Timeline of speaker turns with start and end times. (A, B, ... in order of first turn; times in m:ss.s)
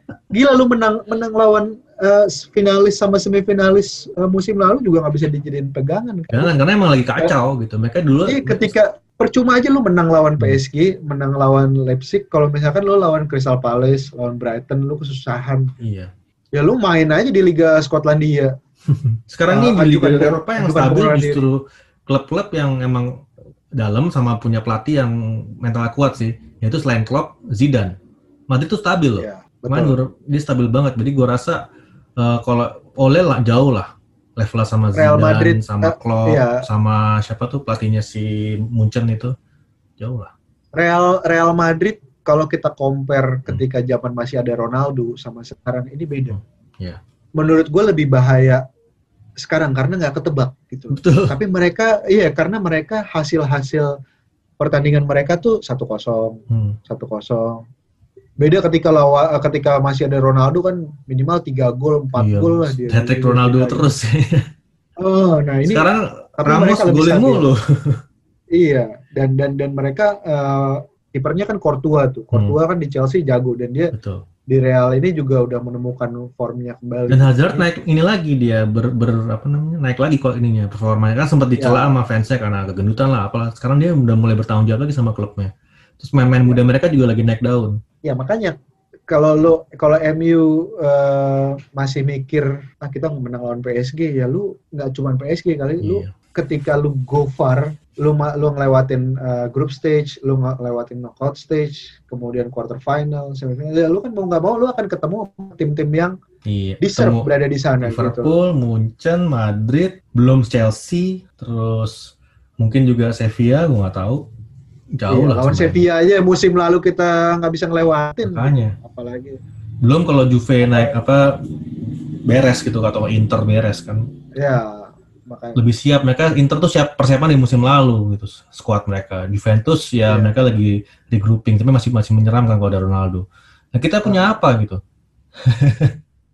0:00.3-0:06.5 A
0:06.3-0:08.7 B
0:08.3-0:15.7 A
0:15.8-0:16.1 B
0:16.5-0:18.5 A
0:18.9-0:23.1 B
0:19.5-0:21.4 A
0:23.8-0:27.9 B
0:28.5-0:31.6 B
0:29.2-0:30.0 A
0:32.2-0:39.3 B
0:34.9-0:36.6 A
0:40.0-0:40.3 B
0:40.7-0:46.3 A
0:46.3-0:47.0 B
0:47.4-0:48.6 A
0:49.4-0:53.9 A
0:50.9-0:51.3 B
0:54.6-0:57.6 A
0:56.5-0:56.8 B
0:58.4-1:03.9 A
1:02.2-1:04.4 B
1:05.0-1:05.9 A
1:05.7-1:08.0 B
1:06.4-1:07.4 A
1:08.5-1:13.9 A
1:13.9-1:14.2 B
1:14.5-1:17.7 A
1:17.1-1:27.8 B
1:21.6-1:22.0 A
1:26.4-1:26.6 A
1:28.0-1:28.5 A
1:29.1-1:46.1 A
1:35.8-1:36.1 B
1:46.4-1:47.3 B
1:46.8-1:48.3 A
1:47.8-1:51.9 B
1:52.6-1:54.2 B
1:55.0-1:55.8 B
1:55.1-1:59.4 A
1:58.2-1:58.7 B
1:59.8-2:01.2 B
2:00.6-2:01.0 A
2:02.2-2:04.0 B
2:04.4-2:05.6 A
2:05.6-2:14.8 B
2:10.0-2:10.4 A
2:14.0-2:14.3 A
2:15.5-2:15.9 B